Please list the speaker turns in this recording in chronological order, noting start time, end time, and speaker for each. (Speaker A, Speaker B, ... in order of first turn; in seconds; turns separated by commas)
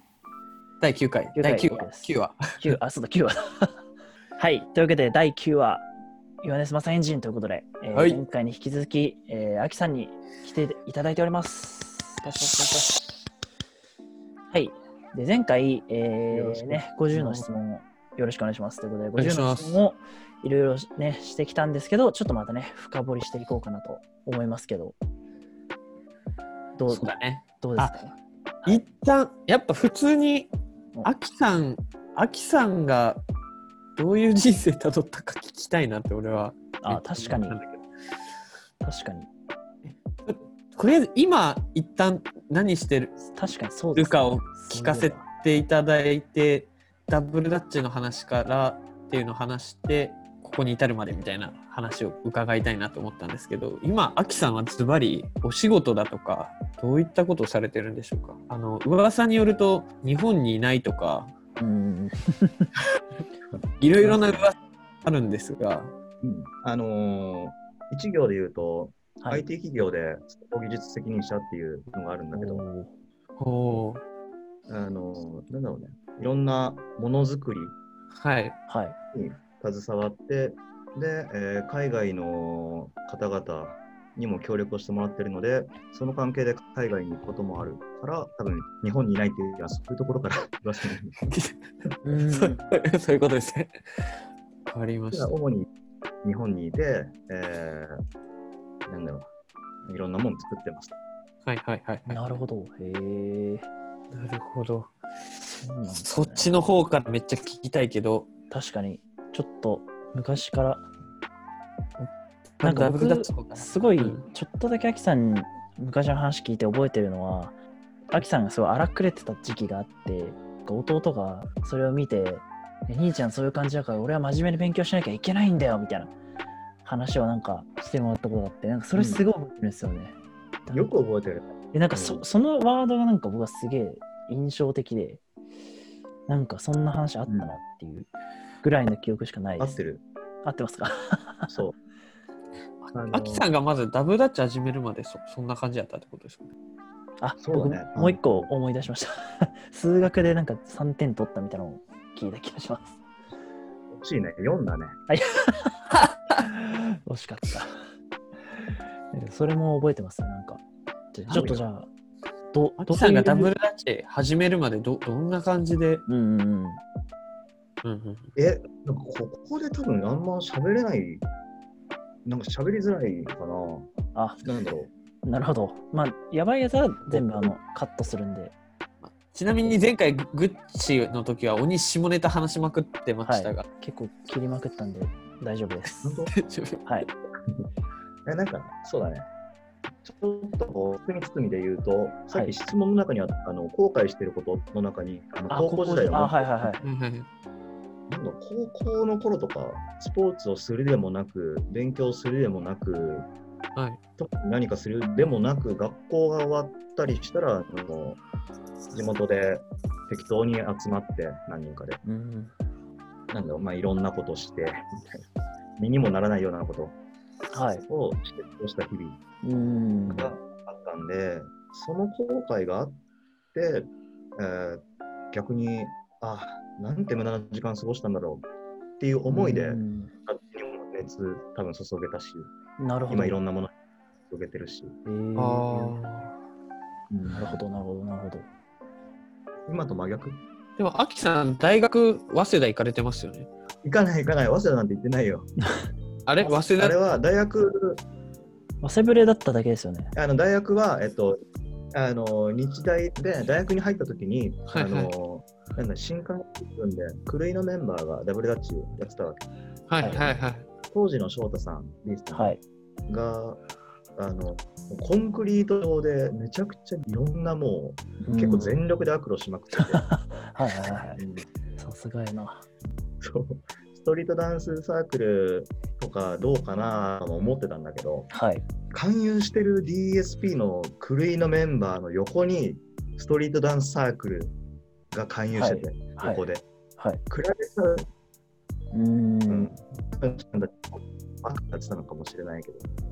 Speaker A: 0.8-2.7, Speaker B: 1.4-3.8, Speaker B: 4.4-5.8, Speaker B: 6.4-12.9, Speaker A: 7.9-8.2, Speaker A: 12.2-12.8, Speaker B: 14.5-25.0, Speaker C: 16.3-16.8, Speaker A: 19.2-19.8, Speaker B: 26.8-28.8, Speaker A: 26.9-28.0, Speaker A: 28.6-30.5, Speaker A: 31.0-33.2, Speaker A: 34.0-37.8, Speaker B: 36.8-37.6, Speaker B: 38.8-39.3, Speaker A: 39.8-43.2, Speaker B: 43.3-45.2, Speaker A: 43.9-61.3, Speaker B: 61.6-62.7, Speaker A: 63.8-65.9, Speaker C: 64.1-64.4, Speaker C: 66.2-72.6, Speaker B: 72.3-72.9, Speaker A: 73.4-74.0, Speaker C: 74.7-77.8, Speaker A: 78.1-78.6, Speaker B: 78.7-79.0, Speaker C: 79.1-91.1, Speaker A: 91.2-94.1, Speaker B: 92.0-92.6, Speaker A: 94.7-95.3, Speaker C: 95.1-95.7, Speaker C: 96.2-98.0, Speaker C: 98.9-99.3, Speaker C: 99.8-100.9, Speaker A: 101.4-102.2, Speaker B: 102.1-103.7, Speaker A: 104.1-104.9, Speaker B: 105.6-106.5, Speaker A: 106.0-108.3, Speaker B: 108.5-110.8, Speaker B: 112.6-117.5, Speaker A: 112.6-114.2, Speaker B: 118.1-126.1, Speaker B: 126.8-130.2, Speaker C: 128.9-129.2, Speaker C: 130.7-132.2, Speaker B: 131.7-135.2, Speaker B: 136.3-138.1, Speaker C: 137.3-137.5, Speaker B: 138.6-139.8, Speaker C: 139.6-140.0, Speaker B: 140.4-141.5, Speaker C: 141.5-141.8, Speaker A: 142.8-146.5, Speaker C: 142.9-143.5, Speaker B: 147.2-153.0, Speaker C: 147.4-148.5, Speaker C: 153.9-154.9, Speaker B: 155.1-157.8, Speaker B: 159.1-161.9, Speaker C: 161.3-161.6, Speaker B: 162.5-163.5, Speaker A: 162.8-166.0, Speaker B: 166.1-166.8, Speaker A: 167.8-168.3, Speaker C: 168.3-171.2, Speaker C: 172.2-173.9, Speaker B: 174.1-174.4, Speaker C: 174.4-174.9, Speaker B: 175.2-178.5, Speaker C: 177.1-177.5, Speaker A: 179.0-183.7, Speaker B: 183.2-186.3, Speaker C: 186.0-186.3, Speaker A: 186.3-186.8, Speaker C: 188.2-189.2, Speaker C: 190.0-196.7, Speaker B: 195.5-196.8, Speaker A: 196.8-197.3, Speaker C: 198.1-203.3, Speaker C: 204.2-208.2, Speaker C: 208.9-212.0, Speaker B: 212.0-212.5, Speaker C: 213.3-215.2, Speaker C: 215.8-216.9, Speaker B: 217.5-217.8, Speaker C: 217.8-219.2, Speaker B: 219.4-220.3, Speaker C: 220.1-222.9, Speaker C: 223.5-228.4, Speaker C: 229.0-232.5, Speaker B: 229.3-230.1, Speaker B: 232.8-233.3, Speaker C: 233.1-233.7, Speaker C: 234.3-234.9, Speaker B: 235.0-236.0, Speaker A: 235.3-236.3, Speaker C: 237.1-237.6, Speaker B: 237.3-238.5, Speaker C: 239.7-240.4, Speaker A: 240.8-243.5, Speaker C: 243.8-245.5, Speaker A: 246.2-247.0, Speaker C: 246.4-248.0, Speaker B: 248.8-250.1, Speaker C: 250.1-251.4, Speaker C: 251.9-259.4, Speaker A: 254.7-255.1, Speaker A: 259.9-260.6, Speaker B: 260.0-260.3, Speaker C: 260.9-262.6, Speaker B: 262.3-262.6, Speaker C: 263.1-263.6, Speaker C: 264.2-270.1, Speaker B: 268.2-268.8, Speaker B: 269.8-271.2, Speaker C: 271.2-271.4, Speaker B: 271.8-272.6, Speaker C: 273.2-278.3, Speaker B: 278.3-278.6, Speaker C: 278.9-284.5, Speaker C: 285.1-286.6, Speaker B: 285.5-286.4, Speaker C: 287.3-288.1, Speaker B: 288.9-289.7, Speaker C: 289.5-292.9